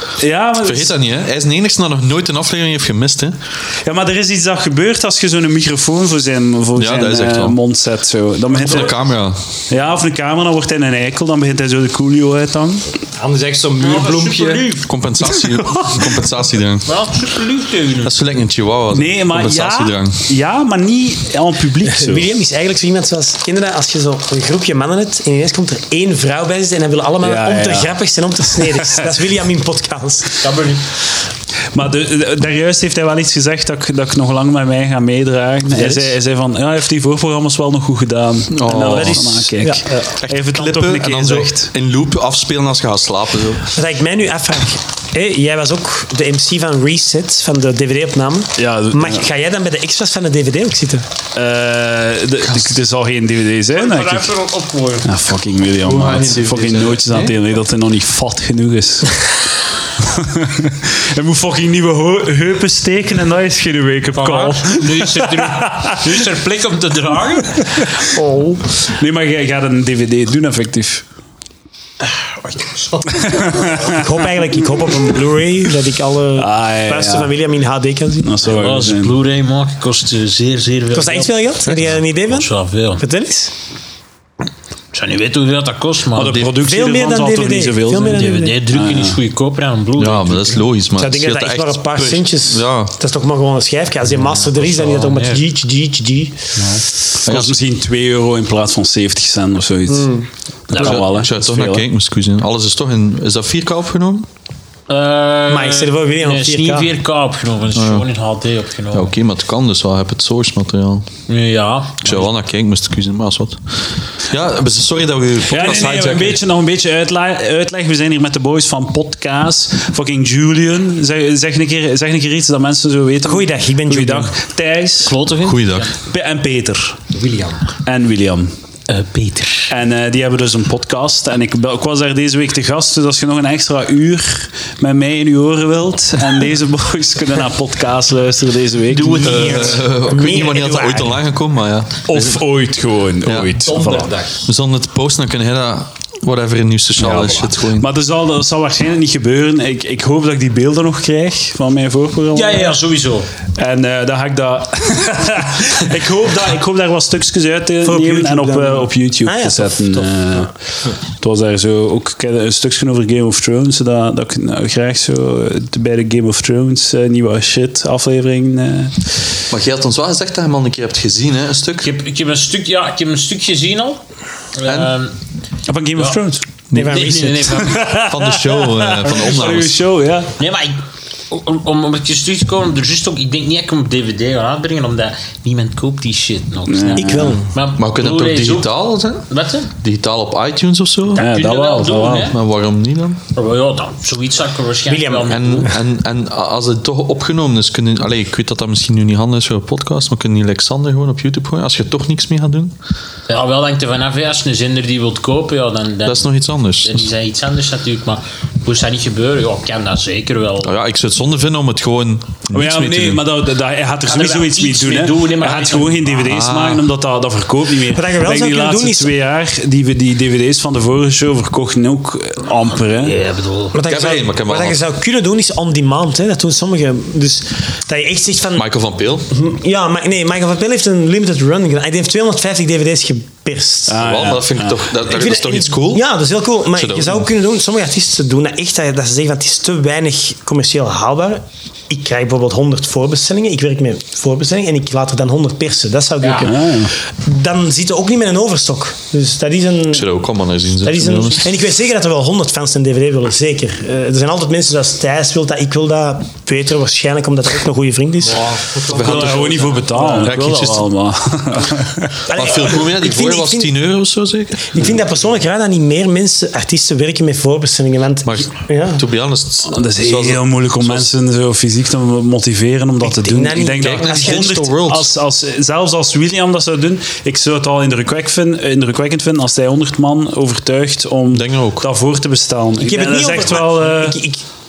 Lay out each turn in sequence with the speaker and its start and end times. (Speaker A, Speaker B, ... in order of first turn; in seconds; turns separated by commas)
Speaker A: 0.2-1.0, Speaker B: 0.6-3.4, Speaker A: 3.8-9.0, Speaker B: 6.8-7.6, Speaker B: 8.5-9.4, Speaker A: 9.7-12.9, Speaker C: 13.2-14.8, Speaker D: 13.8-14.9, Speaker B: 14.8-16.9, Speaker D: 16.9-18.1, Speaker B: 18.0-20.2, Speaker A: 18.9-22.3, Speaker E: 21.8-30.5, Speaker A: 27.2-27.9, Speaker A: 28.6-29.1, Speaker D: 30.4-30.9, Speaker A: 31.7-41.7, Speaker B: 38.5-39.5, Speaker E: 38.9-40.1, Speaker B: 40.1-43.7, Speaker E: 43.7-51.1, Speaker A: 48.6-49.3, Speaker A: 51.3-54.3, Speaker D: 53.7-55.1, Speaker A: 55.0-59.2, Speaker B: 55.8-57.4, Speaker A: 60.0-66.0, Speaker D: 64.1-67.9, Speaker E: 68.1-68.6, Speaker A: 68.8-71.0, Speaker A: 73.1-74.0, Speaker E: 73.7-78.4, Speaker A: 76.3-77.3, Speaker A: 78.2-79.2, Speaker D: 78.5-83.0, Speaker E: 80.9-83.5, Speaker D: 84.9-86.4, Speaker A: 86.1-89.2, Speaker B: 86.2-86.5, Speaker E: 86.6-88.6, Speaker D: 88.0-90.7, Speaker B: 90.0-92.9, Speaker E: 91.0-96.7, Speaker A: 97.1-101.8, Speaker B: 97.2-97.6, Speaker E: 99.9-100.3, Speaker D: 100.7-101.0, Speaker B: 100.7-104.3, Speaker D: 104.9-109.1, Speaker E: 105.5-106.9, Speaker B: 107.7-108.0, Speaker B: 108.9-111.1, Speaker D: 111.3-112.3, Speaker B: 112.0-116.4, Speaker A: 115.5-125.1, Speaker E: 123.2-124.3, Speaker D: 125.0-125.9, Speaker B: 125.4-125.9, Speaker A: 126.0-127.0, Speaker C: 127.1-127.7, Speaker A: 127.8-128.5, Speaker D: 128.9-129.7, Speaker A: 129.7-139.7, Speaker D: 138.9-139.8, Speaker E: 138.9-141.2, Speaker B: 139.1-142.4, Speaker A: 142.1-144.1, Speaker B: 143.2-143.5, Speaker C: 143.6-144.5, Speaker B: 144.4-147.9, Speaker A: 147.0-152.7, Speaker D: 152.3-153.3, Speaker A: 153.5-160.5, Speaker E: 157.8-160.4, Speaker A: 161.2-169.0, Speaker B: 169.5-171.9, Speaker D: 171.8-174.0, Speaker D: 174.5-175.1, Speaker B: 174.6-174.9, Speaker A: 175.7-176.4, Speaker B: 176.7-177.3, Speaker E: 176.7-177.7, Speaker D: 176.8-177.9, Speaker A: 177.5-180.3, Speaker B: 177.9-179.8, Speaker D: 180.4-189.7, Speaker A: 186.7-187.4, Speaker E: 186.9-187.5, Speaker B: 187.8-191.2, Speaker D: 191.1-192.4, Speaker A: 191.2-192.3, Speaker B: 192.2-193.2, Speaker D: 193.3-195.7, Speaker E: 194.9-195.8, Speaker B: 195.3-202.7, Speaker D: 203.3-210.8, Speaker B: 206.1-207.1, Speaker B: 210.6-213.3, Speaker A: 212.5-223.2, Speaker D: 214.1-216.2, Speaker B: 216.2-216.9, Speaker E: 217.8-219.1, Speaker D: 223.0-223.8, Speaker E: 223.7-228.7, Speaker B: 223.8-224.8, Speaker B: 228.6-229.3, Speaker E: 229.3-234.1, Speaker A: 233.9-234.8, Speaker B: 234.0-236.0, Speaker E: 235.0-250.1, Speaker B: 236.7-237.2, Speaker D: 246.2-246.5, Speaker A: 246.4-246.9, Speaker B: 249.9-251.4, Speaker E: 250.8-258.5, Speaker C: 258.2-259.9, Speaker B: 258.9-260.9, Speaker A: 258.9-262.2, Speaker E: 262.3-263.7, Speaker B: 262.3-265.0, Speaker E: 264.7-269.0, Speaker B: 268.2-271.1, Speaker A: 269.7-284.1, Speaker E: 273.0-274.5, Speaker B: 273.8-275.1, Speaker B: 281.3-281.9, Speaker E: 282.8-284.4